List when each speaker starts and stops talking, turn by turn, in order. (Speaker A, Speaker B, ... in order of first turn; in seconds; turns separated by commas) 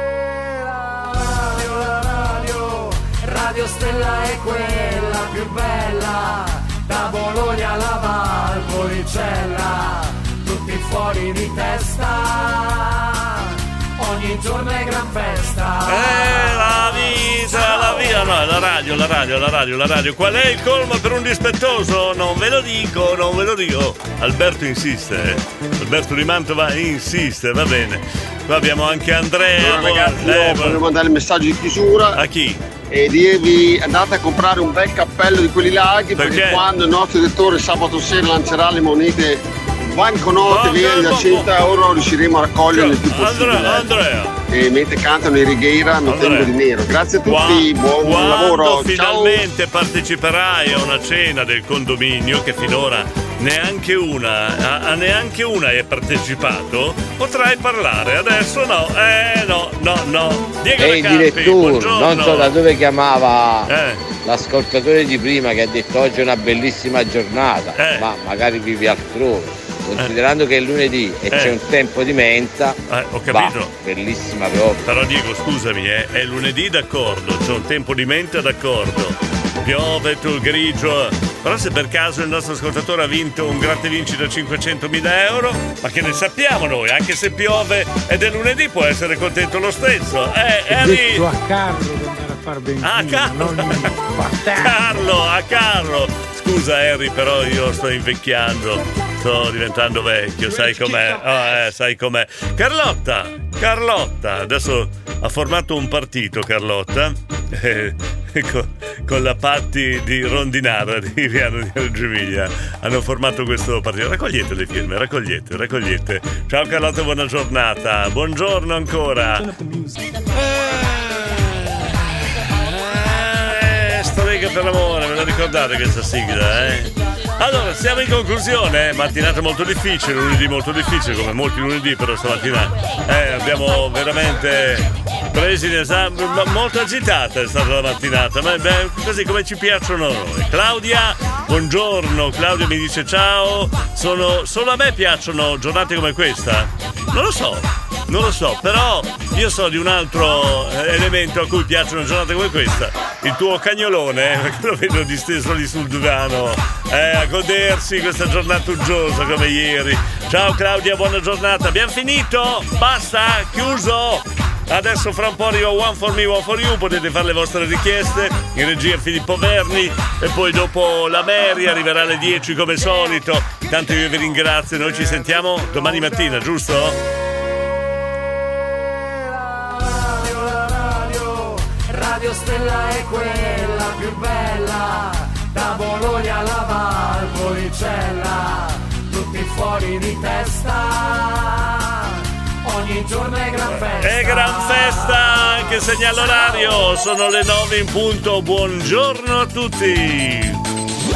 Speaker A: 0.8-16.9, Speaker B: 15.8-30.8, Speaker A: 17.5-18.0, Speaker C: 29.6-32.2, Speaker B: 32.1-32.6, Speaker C: 32.9-43.9, Speaker B: 36.1-36.6, Speaker B: 40.5-41.5, Speaker B: 42.7-44.3, Speaker C: 44.5-49.4, Speaker B: 46.0-46.5, Speaker B: 47.2-62.6, Speaker D: 60.8-63.7, Speaker B: 63.7-64.0, Speaker D: 64.2-72.8, Speaker B: 67.8-68.1, Speaker B: 71.3-71.6, Speaker B: 72.9-73.7, Speaker D: 73.3-74.8, Speaker B: 74.8-91.3, Speaker E: 90.7-94.7, Speaker B: 92.8-94.0, Speaker B: 94.5-119.6, Speaker B: 120.3-122.0, Speaker B: 122.6-177.0, Speaker A: 179.7-195.2, Speaker B: 193.7-200.6